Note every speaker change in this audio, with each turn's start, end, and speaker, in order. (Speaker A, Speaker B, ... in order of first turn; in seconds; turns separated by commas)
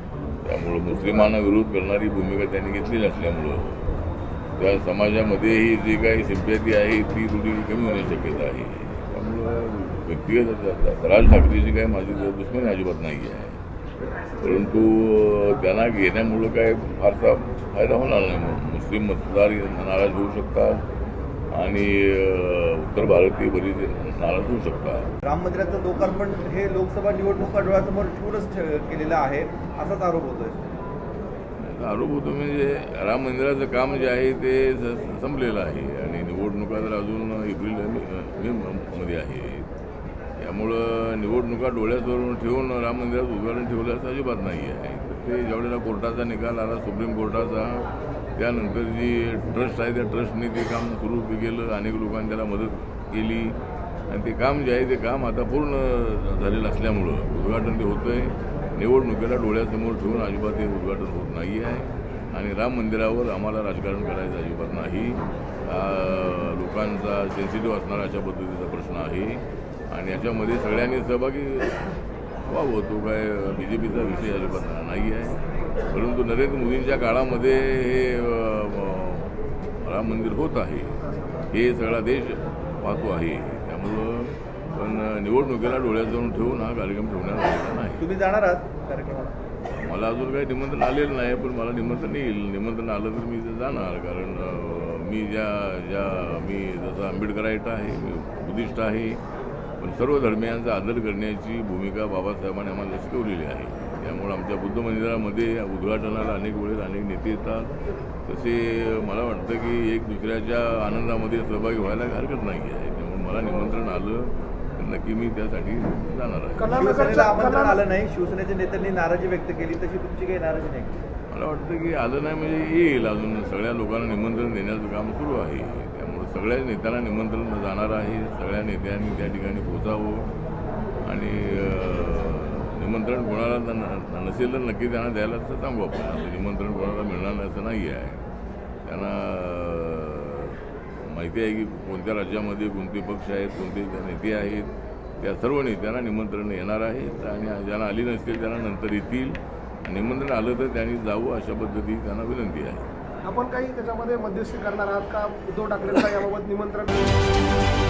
Speaker A: 0.5-3.9, Speaker A: 4.6-13.6, Speaker A: 14.4-20.8, Speaker A: 21.5-25.1, Speaker B: 25.2-30.7, Speaker A: 31.6-39.7, Speaker A: 40.4-53.6, Speaker A: 54.1-71.8, Speaker A: 72.5-88.0, Speaker B: 88.0-89.3, Speaker A: 89.7-99.2, Speaker A: 99.8-107.7, Speaker A: 108.3-116.7, Speaker C: 116.6-117.8, Speaker B: 116.7-121.0, Speaker A: 121.3-130.3, Speaker A: 131.0-138.2, Speaker A: 138.9-152.9, Speaker C: 153.2-157.0